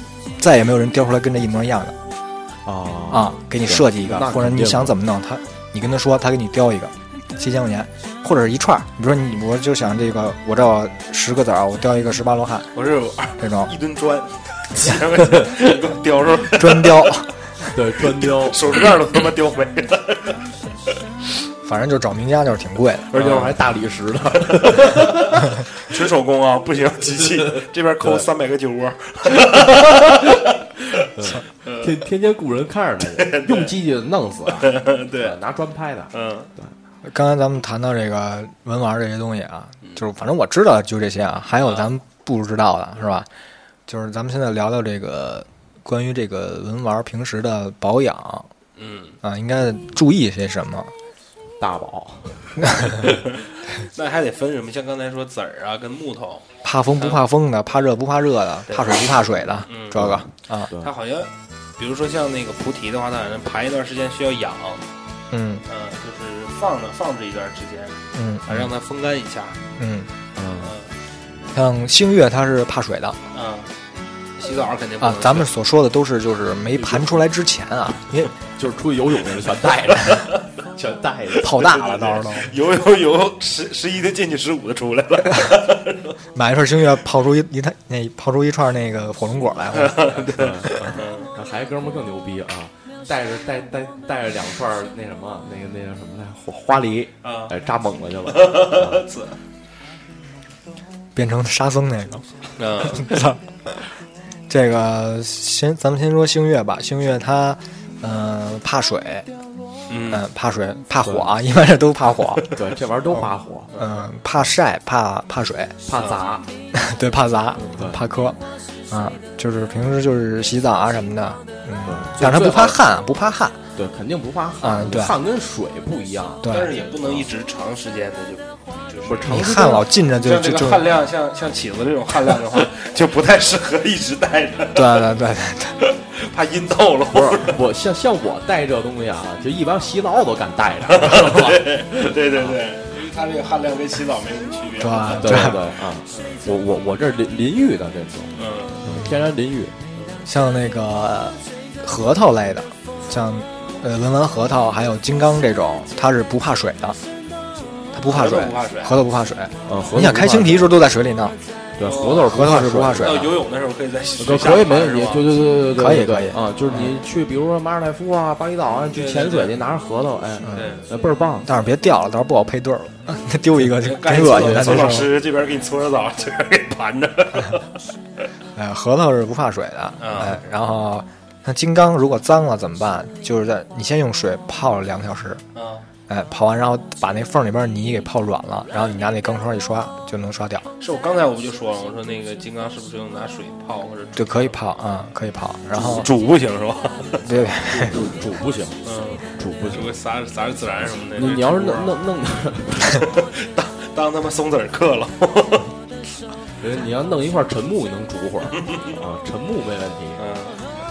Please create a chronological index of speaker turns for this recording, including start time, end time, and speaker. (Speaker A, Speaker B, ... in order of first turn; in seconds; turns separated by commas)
Speaker A: 0.4-2.0, Speaker B: 2.6-5.0, Speaker A: 3.1-12.7, Speaker C: 12.7-17.1, Speaker A: 13.4-13.7, Speaker B: 15.3-15.6, Speaker A: 16.5-17.3, Speaker B: 17.7-18.9, Speaker C: 18.1-20.4, Speaker A: 21.6-23.1, Speaker B: 23.1-25.4, Speaker C: 23.1-23.6, Speaker C: 24.6-25.0, Speaker C: 25.6-30.4, Speaker B: 29.8-30.1, Speaker B: 31.0-36.7, Speaker C: 31.6-31.9, Speaker C: 33.2-33.7, Speaker C: 34.6-35.4, Speaker C: 36.1-36.5, Speaker A: 37.0-43.3, Speaker C: 41.6-41.9, Speaker A: 43.9-48.5, Speaker C: 48.8-49.2, Speaker A: 49.2-50.9, Speaker B: 51.6-53.1, Speaker C: 53.9-56.5, Speaker A: 56.6-60.7, Speaker C: 58.7-59.1, Speaker C: 59.7-60.0, Speaker B: 59.9-60.9, Speaker C: 60.8-64.8, Speaker A: 65.3-65.6, Speaker C: 65.7-69.6, Speaker A: 68.1-68.7, Speaker A: 69.8-70.1, Speaker B: 70.4-70.8, Speaker C: 70.6-70.9, Speaker A: 71.5-73.2, Speaker C: 73.3-73.7, Speaker C: 74.4-75.5, Speaker A: 75.0-78.3, Speaker B: 76.8-77.2, Speaker B: 78.4-81.6, Speaker C: 80.1-80.4, Speaker A: 81.4-82.5, Speaker C: 81.5-86.2, Speaker A: 86.3-90.2, Speaker C: 89.7-91.3, Speaker B: 90.2-99.0, Speaker C: 97.2-97.5, Speaker C: 98.3-99.4, Speaker A: 101.2-102.3, Speaker C: 102.6-103.1, Speaker A: 102.9-103.9, Speaker A: 104.5-109.3, Speaker C: 109.9-110.2, Speaker A: 110.1-112.4, Speaker B: 111.0-111.3, Speaker B: 112.5-113.8, Speaker A: 113.1-115.8, Speaker B: 115.9-116.5, Speaker C: 115.9-116.2, Speaker A: 116.7-123.6, Speaker B: 117.6-118.0, Speaker B: 121.9-122.8, Speaker B: 123.8-126.5, Speaker A: 124.6-125.2, Speaker A: 126.4-126.7, Speaker C: 126.5-129.4, Speaker B: 129.1-129.9, Speaker A: 129.2-130.9, Speaker C: 130.2-135.1, Speaker A: 134.8-135.8, Speaker C: 135.8-137.6, Speaker B: 137.1-142.6, Speaker C: 140.9-146.4, Speaker A: 144.8-145.7, Speaker B: 145.1-149.8, Speaker C: 148.3-148.9, Speaker C: 149.9-150.2, Speaker A: 150.2-157.0, Speaker A: 157.9-161.4, Speaker C: 158.1-159.0, Speaker B: 159.7-160.8, Speaker B: 161.8-163.3, Speaker C: 161.8-165.2, Speaker A: 162.3-163.4, Speaker B: 164.2-171.5, Speaker A: 165.7-167.0, Speaker C: 168.9-169.6, Speaker C: 170.5-170.8, Speaker A: 171.4-175.1, Speaker C: 173.8-177.7, Speaker B: 174.2-175.0, Speaker A: 178.6-185.4, Speaker C: 180.0-180.4, Speaker C: 185.6-185.9, Speaker A: 186.1-190.7, Speaker C: 190.8-194.7, Speaker A: 194.2-196.1, Speaker C: 195.8-197.3, Speaker A: 197.2-198.0, Speaker B: 197.7-199.9, Speaker C: 198.8-201.9, Speaker B: 201.2-203.1, Speaker C: 202.8-205.7, Speaker B: 206.6-210.2, Speaker C: 210.2-210.6